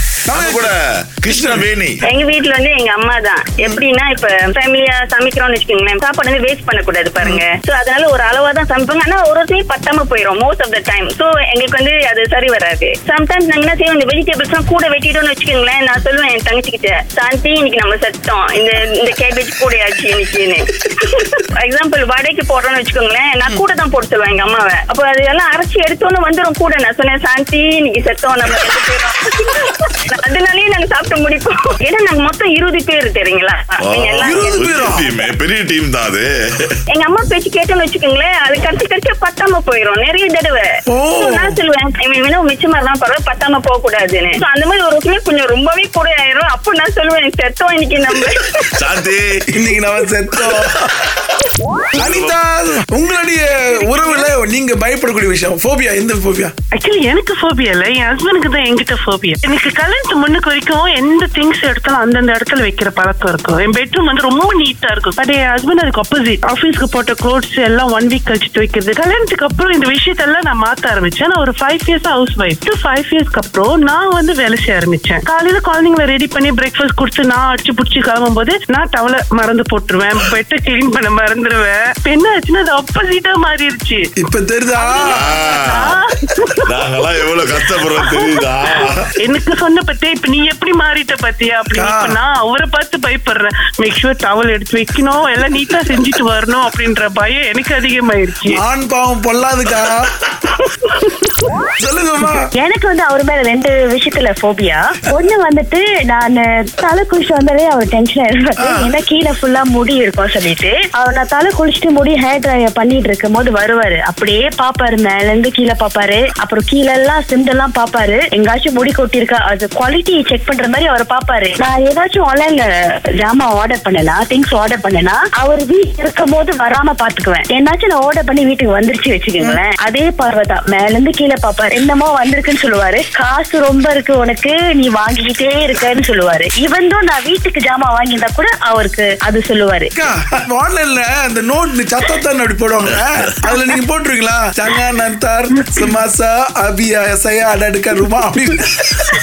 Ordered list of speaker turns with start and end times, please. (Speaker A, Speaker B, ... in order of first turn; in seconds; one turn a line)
Speaker A: 0.3-0.6
Speaker B: 0.3-1.9
Speaker C: 2.1-35.1
Speaker B: 33.9-36.2
Speaker A: 34.2-35.0
Speaker C: 36.9-48.5
Speaker B: 48.8-49.2
Speaker A: 49.6-50.7
Speaker A: 52.0-56.5
Speaker B: 52.0-52.3
Speaker D: 56.7-84.1
Speaker A: 84.2-85.2
Speaker D: 84.8-86.4
Speaker B: 85.1-85.9
Speaker B: 86.7-89.0
Speaker D: 89.2-98.6
Speaker A: 91.7-92.2
Speaker A: 98.6-99.9
Speaker A: 101.8-102.4
Speaker E: 102.6-122.7
Speaker E: 123.2-139.9
Speaker A: 139.9-148.7